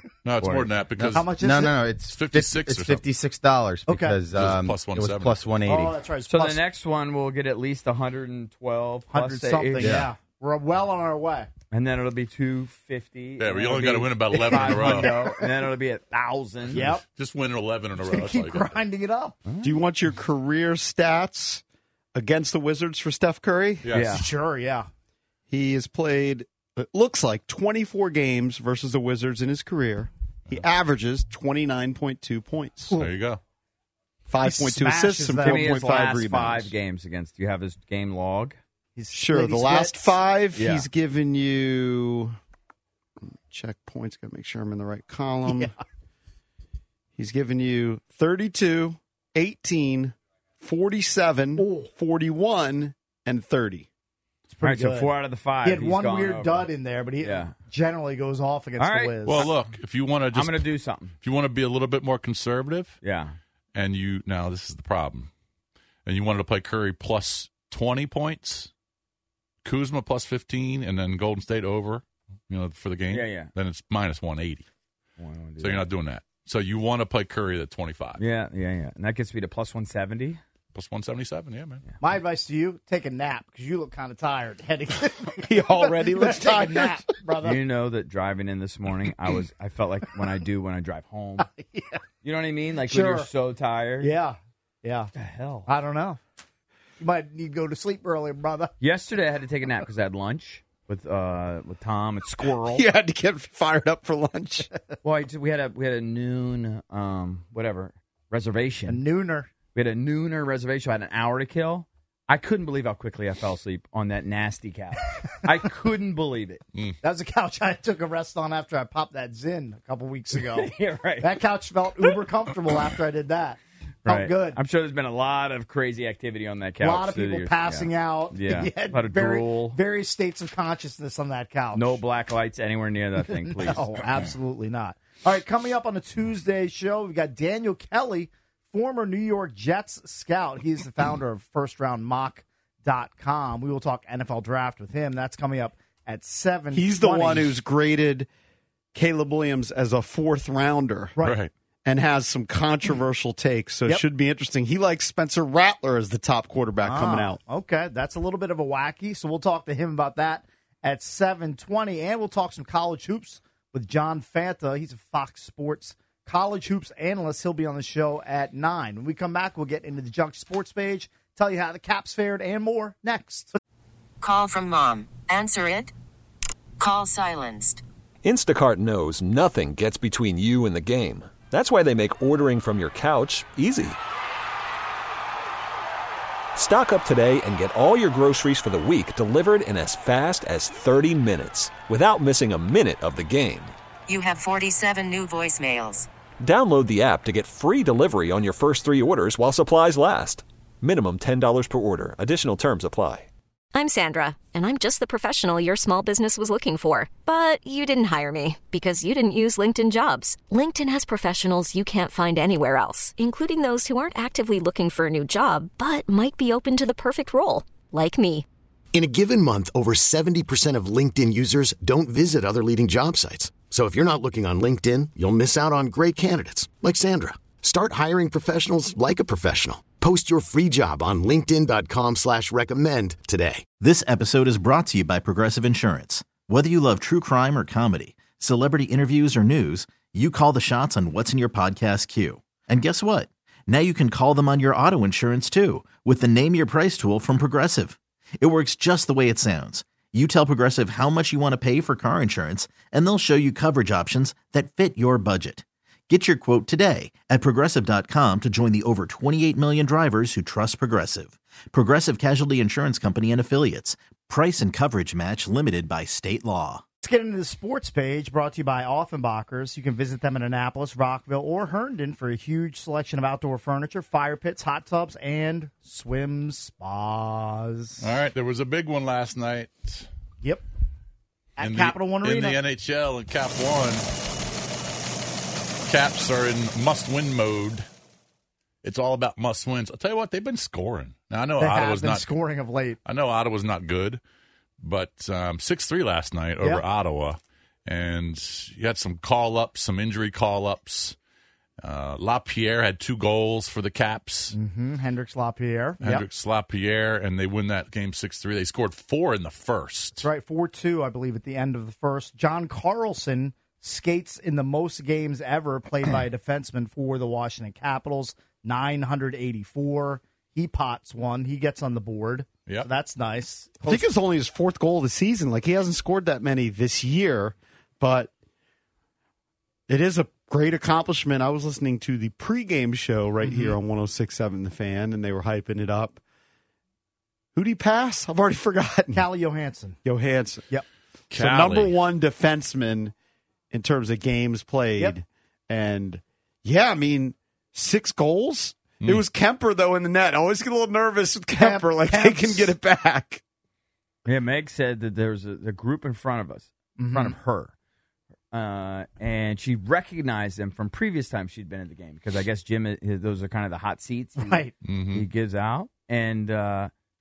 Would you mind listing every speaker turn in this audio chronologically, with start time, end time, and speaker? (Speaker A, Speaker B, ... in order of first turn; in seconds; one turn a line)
Speaker A: 0.2-1.3
Speaker B: 0.4-1.1
Speaker C: 1.1-1.8
Speaker D: 1.3-6.0
Speaker A: 2.1-3.0
Speaker C: 3.9-4.2
Speaker A: 4.3-5.4
Speaker C: 5.7-6.6
Speaker B: 6.3-10.1
Speaker C: 9.1-11.5
Speaker D: 9.8-10.1
Speaker B: 11.7-16.9
Speaker A: 13.4-15.1
Speaker C: 14.5-15.5
Speaker C: 16.7-17.0
Speaker A: 16.7-18.8
Speaker C: 18.0-19.4
Speaker B: 19.5-19.7
Speaker E: 19.6-21.6
Speaker E: 22.1-23.9
Speaker A: 23.8-24.2
Speaker B: 23.9-24.3
Speaker C: 24.1-24.9
Speaker E: 25.5-33.0
Speaker A: 32.9-33.4
Speaker E: 34.3-36.7
Speaker C: 34.4-35.8
Speaker B: 35.4-38.6
Speaker C: 39.0-40.1
Speaker E: 39.1-42.4
Speaker B: 40.5-40.9
Speaker E: 43.3-45.7
Speaker E: 47.2-53.9
Speaker C: 51.6-51.9
Speaker C: 54.5-59.5
Speaker B: 54.6-56.7
Speaker B: 57.2-57.5
Speaker B: 58.8-59.5
Speaker A: 59.2-60.7
Speaker B: 60.3-61.1
Speaker A: 61.2-63.0
Speaker B: 63.0-63.4
Speaker A: 63.7-65.3
Speaker A: 66.1-68.7
Speaker A: 69.6-74.7
Speaker B: 73.1-73.5
Speaker B: 75.2-75.9
Speaker A: 75.6-78.2
Speaker B: 78.2-80.4
Speaker A: 80.7-81.8
Speaker C: 82.0-87.6
Speaker E: 85.4-87.1
Speaker B: 87.4-91.5
Speaker C: 91.4-92.0
Speaker B: 92.2-94.1
Speaker C: 92.9-93.3
Speaker C: 94.0-95.1
Speaker B: 95.2-95.7
Speaker C: 95.7-96.2
Speaker C: 97.0-98.7
Speaker B: 98.8-102.8
Speaker E: 102.7-104.7
Speaker B: 105.0-109.0
Speaker C: 108.9-109.5
Speaker B: 109.8-116.6
Speaker C: 117.0-124.6
Speaker B: 120.4-121.3
Speaker B: 124.0-129.8
Speaker C: 126.8-132.0
Speaker B: 131.8-133.9
Speaker C: 133.5-147.5
Speaker E: 146.7-148.3
Speaker E: 148.9-151.1
Speaker A: 151.2-151.5
Speaker E: 151.8-157.4
Speaker C: 156.8-173.6
Speaker F: 174.2-175.9
Speaker F: 176.8-177.8
Speaker G: 178.2-184.0
Speaker G: 186.6-193.8
Speaker F: 194.1-196.1
Speaker G: 196.4-203.3
Speaker H: 203.7-218.4
Speaker I: 218.9-233.7
Speaker J: 233.8-266.8
Speaker C: 267.0-278.1
Speaker A: 278.0-280.1
Speaker C: 281.6-282.6
Speaker A: 281.6-284.1
Speaker A: 285.9-287.9
Speaker A: 288.8-292.2
Speaker C: 291.6-293.0
Speaker A: 293.1-294.2
Speaker A: 294.8-301.1
Speaker A: 301.8-304.6
Speaker C: 304.5-306.2
Speaker A: 306.0-310.2
Speaker C: 310.2-324.1
Speaker E: 323.9-328.3
Speaker E: 329.9-336.2
Speaker C: 333.4-333.8
Speaker E: 337.6-339.2
Speaker C: 339.1-340.0
Speaker E: 340.1-340.7
Speaker A: 341.3-342.0
Speaker E: 341.3-343.1
Speaker E: 343.7-353.4
Speaker C: 351.6-352.8
Speaker B: 354.3-357.7
Speaker C: 357.0-357.4
Speaker B: 358.5-366.9
Speaker C: 364.4-364.7
Speaker A: 364.9-365.2